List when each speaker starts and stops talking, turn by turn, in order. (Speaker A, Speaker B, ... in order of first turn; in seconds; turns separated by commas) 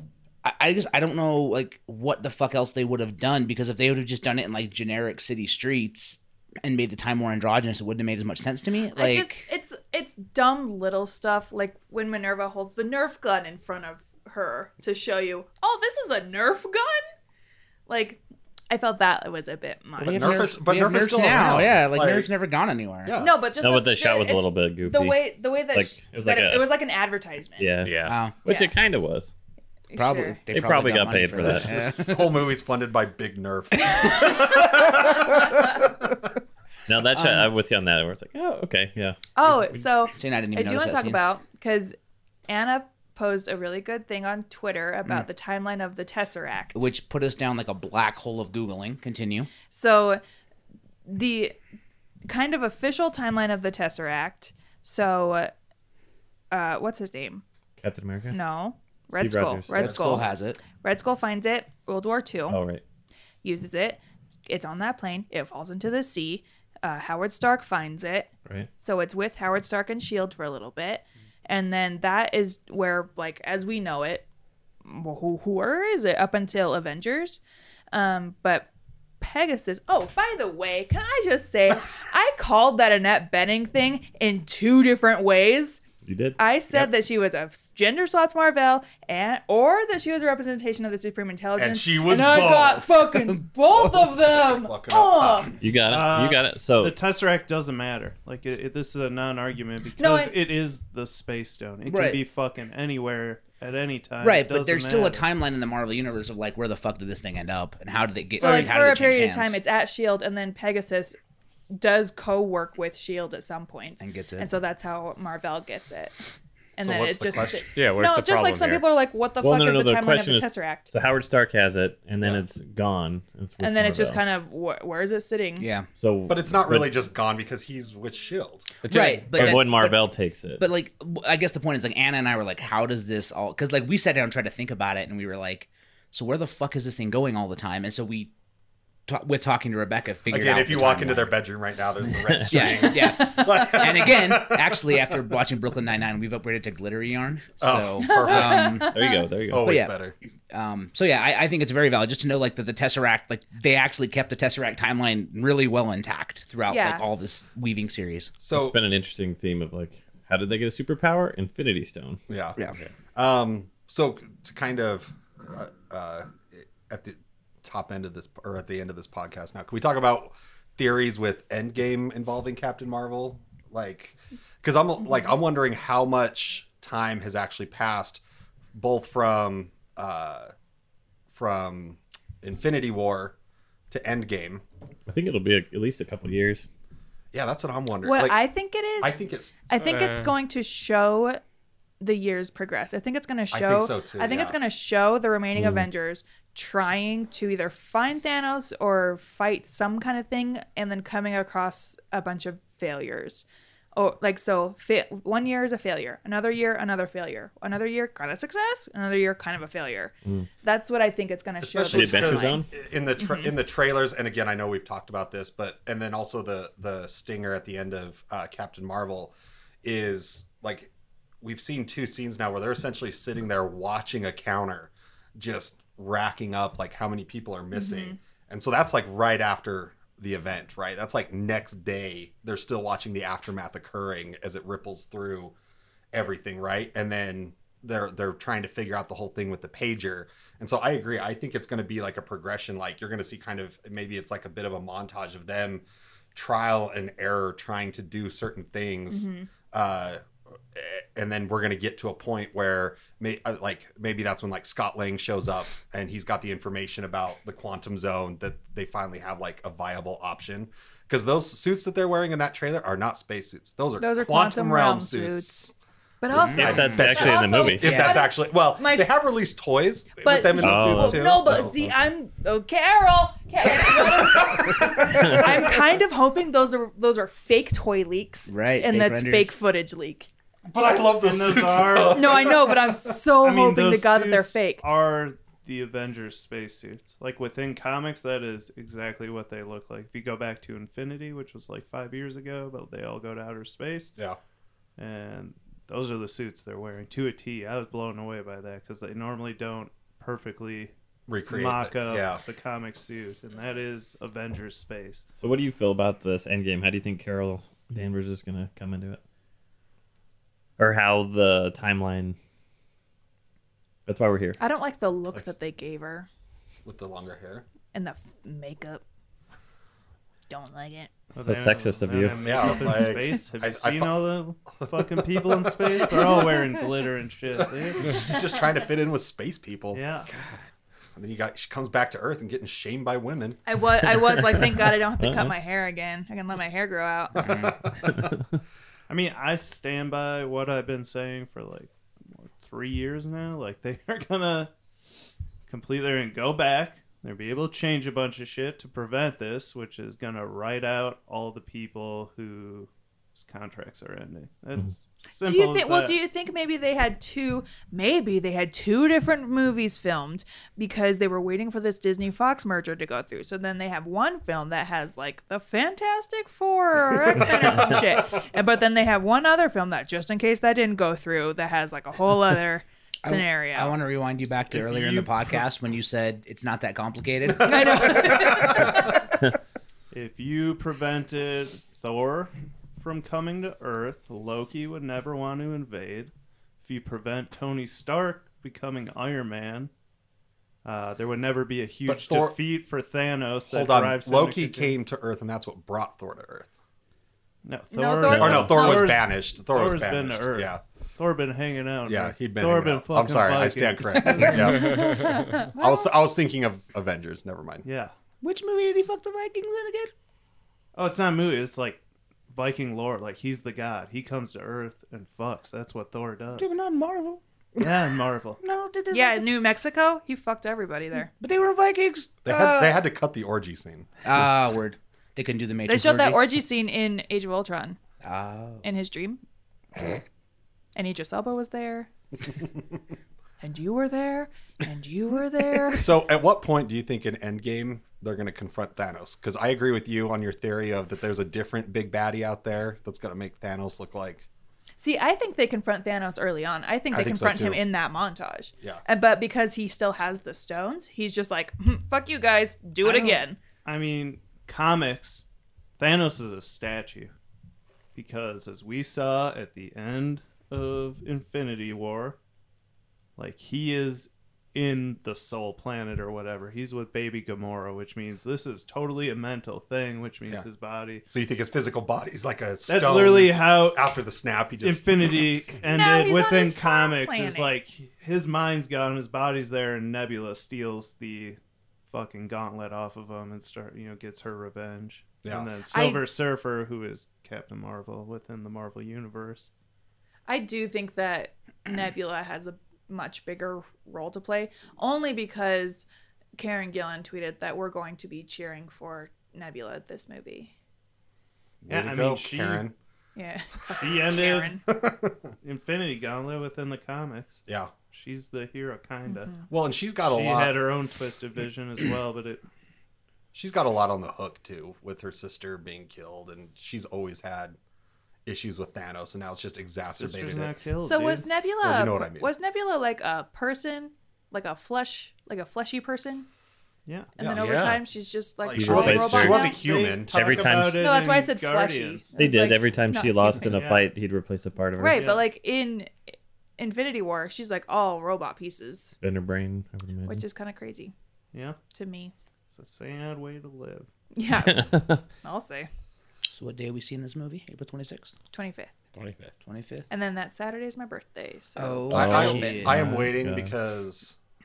Speaker A: 0.4-9.4, Speaker B: 8.9-17.0, Speaker B: 17.9-20.5, Speaker A: 20.0-23.1, Speaker C: 20.0-22.3, Speaker C: 23.0-23.4, Speaker B: 23.2-27.7, Speaker D: 23.6-26.7, Speaker D: 27.6-29.3, Speaker E: 27.8-28.1, Speaker A: 28.0-28.4, Speaker B: 28.4-28.7, Speaker B: 29.9-30.4, Speaker A: 29.9-32.3, Speaker D: 30.5-31.7, Speaker C: 31.4-36.1, Speaker D: 36.9-39.2, Speaker A: 37.1-37.5, Speaker B: 39.3-42.0, Speaker A: 40.1-41.2, Speaker B: 42.5-46.9, Speaker A: 46.7-49.5, Speaker B: 49.7-50.2, Speaker B: 51.1-51.6, Speaker B: 52.2-55.5, Speaker B: 56.5-57.4, Speaker D: 57.8-58.4, Speaker B: 58.3-62.6, Speaker D: 59.1-60.0, Speaker A: 59.7-60.6, Speaker D: 62.5-62.8, Speaker B: 63.4-74.3, Speaker B: 74.8-77.4, Speaker B: 77.9-78.7, Speaker B: 79.2-85.8, Speaker D: 86.0-86.9, Speaker B: 86.4-95.5, Speaker C: 91.6-93.2, Speaker C: 93.8-95.5, Speaker D: 95.6-97.0, Speaker F: 95.9-105.2, Speaker B: 100.0-100.3, Speaker A: 101.8-102.2, Speaker A: 104.2-109.6, Speaker B: 108.4-111.2, Speaker B: 111.7-116.2, Speaker A: 114.0-114.5, Speaker B: 116.8-120.9, Speaker C: 116.8-117.7, Speaker E: 117.8-118.8, Speaker D: 119.4-124.2, Speaker B: 123.6-125.7, Speaker A: 125.6-125.9, Speaker D: 126.0-126.9, Speaker C: 126.3-128.7, Speaker E: 128.8-129.6, Speaker A: 128.9-130.1, Speaker D: 129.3-130.6, Speaker A: 130.6-138.3, Speaker A: 139.1-141.3, Speaker C: 140.3-145.3, Speaker D: 142.3-142.8, Speaker A: 142.5-149.0, Speaker B: 143.0-143.7, Speaker C: 147.6-148.8, Speaker B: 148.0-149.2, Speaker D: 148.9-149.8, Speaker C: 149.5-150.1, Speaker A: 149.6-149.9, Speaker A: 150.5-158.4, Speaker B: 156.7-157.0, Speaker C: 158.4-158.8, Speaker D: 158.5-162.2, Speaker C: 162.3-162.6, Speaker C: 163.1-178.2, Speaker C: 178.7-180.5, Speaker C: 181.3-183.3, Speaker C: 183.9-184.6, Speaker D: 185.1-186.7, Speaker C: 187.3-188.4, Speaker B: 188.0-189.2, Speaker C: 189.0-189.6, Speaker B: 189.7-191.4, Speaker E: 189.8-190.3, Speaker B: 192.0-203.4, Speaker C: 193.5-194.6, Speaker D: 195.6-195.9, Speaker B: 203.9-212.6, Speaker C: 211.6-220.9, Speaker D: 211.9-212.7, Speaker B: 213.2-213.5, Speaker C: 221.4-235.5, Speaker B: 227.7-228.2, Speaker C: 236.1-250.2, Speaker B: 249.1-249.5, Speaker C: 250.7-265.7, Speaker B: 264.0-265.5, Speaker B: 266.2-269.1, Speaker C: 266.3-271.7, Speaker D: 266.5-268.0, Speaker A: 266.6-267.1, Speaker A: 267.8-268.2, Speaker B: 270.2-280.3, Speaker D: 270.6-271.8, Speaker C: 273.6-275.7, Speaker A: 278.5-279.6, Speaker C: 280.7-283.1, Speaker F: 281.2-282.4, Speaker B: 282.1-284.8, Speaker F: 283.4-294.1, Speaker F: 295.0-300.9, Speaker C: 301.3-302.4, Speaker F: 301.5-305.3, Speaker D: 305.4-309.2, Speaker D: 310.8-312.4, Speaker D: 314.1-314.6, Speaker B: 314.6-316.3, Speaker C: 316.8-317.6, Speaker B: 317.9-319.0, Speaker B: 320.5-321.1, Speaker F: 321.3-328.1, Speaker D: 321.4-322.9, Speaker C: 322.3-324.2, Speaker C: 324.8-326.4, Speaker C: 328.0-330.0, Speaker F: 329.9-330.3, Speaker C: 331.1-333.6, Speaker B: 333.6-337.4, Speaker D: 335.2-335.5, Speaker C: 337.3-338.3, Speaker A: 337.4-337.8, Speaker D: 338.1-338.4, Speaker F: 339.1-344.7, Speaker F: 345.7-356.1, Speaker B: 355.4-373.9, Speaker A: 373.2-379.1, Speaker F: 374.7-375.6, Speaker B: 377.6-379.2, Speaker F: 380.1-389.9, Speaker F: 390.8-395.0, Speaker C: 392.1-392.6, Speaker C: 393.7-396.7, Speaker F: 397.6-404.9, Speaker B: 397.9-399.2, Speaker C: 398.3-400.8, Speaker C: 402.1-407.9, Speaker A: 404.3-404.8, Speaker B: 404.6-406.1, Speaker F: 407.8-408.1, Speaker A: 408.4-410.1, Speaker F: 410.9-416.7, Speaker A: 416.6-417.4, Speaker C: 417.8-418.0, Speaker F: 417.8-418.6, Speaker A: 418.6-419.4, Speaker B: 419.1-421.3, Speaker A: 421.3-423.0, Speaker C: 422.4-424.2, Speaker A: 424.2-426.5, Speaker B: 425.9-428.0, Speaker A: 428.2-428.8, Speaker B: 428.8-429.4, Speaker B: 430.9-432.1, Speaker B: 433.6-436.2, Speaker C: 436.0-444.4, Speaker B: 445.0-453.6, Speaker C: 447.1-447.8, Speaker F: 453.0-455.4, Speaker F: 456.0-457.3, Speaker F: 458.1-462.4, Speaker F: 463.4-471.2, Speaker C: 471.3-475.5, Speaker F: 472.9-474.1, Speaker F: 474.8-481.6, Speaker B: 475.9-477.7, Speaker F: 482.1-489.7, Speaker B: 485.9-486.2, Speaker B: 490.5-496.1, Speaker B: 496.6-500.7, Speaker C: 501.8-502.9, Speaker F: 501.9-502.9, Speaker B: 503.4-504.8, Speaker F: 503.9-504.8, Speaker C: 504.9-505.5, Speaker F: 505.6-509.5, Speaker C: 507.7-507.9, Speaker B: 509.3-509.6, Speaker C: 509.7-510.8, Speaker F: 510.2-512.6, Speaker C: 513.5-517.8, Speaker C: 518.4-520.7, Speaker F: 520.1-521.5, Speaker B: 521.0-526.5, Speaker C: 521.8-522.5, Speaker F: 527.0-527.3, Speaker B: 527.3-529.8, Speaker C: 527.4-527.9, Speaker E: 527.5-528.0, Speaker C: 528.6-531.0, Speaker D: 528.7-529.8, Speaker F: 529.1-532.4, Speaker D: 530.3-531.0, Speaker B: 531.0-533.8, Speaker D: 532.4-535.2, Speaker F: 533.6-534.1, Speaker B: 535.0-536.1, Speaker F: 535.1-535.4, Speaker B: 536.8-539.1, Speaker D: 539.2-540.4, Speaker B: 540.3-541.1, Speaker F: 541.5-541.8, Speaker B: 541.9-542.3, Speaker F: 542.7-544.1, Speaker B: 544.3-545.9, Speaker D: 544.6-545.2, Speaker A: 546.5-548.4, Speaker B: 548.5-548.9, Speaker E: 549.1-549.5, Speaker A: 549.6-550.0, Speaker B: 550.1-552.9, Speaker A: 551.8-553.2, Speaker C: 552.1-554.4, Speaker D: 552.2-553.7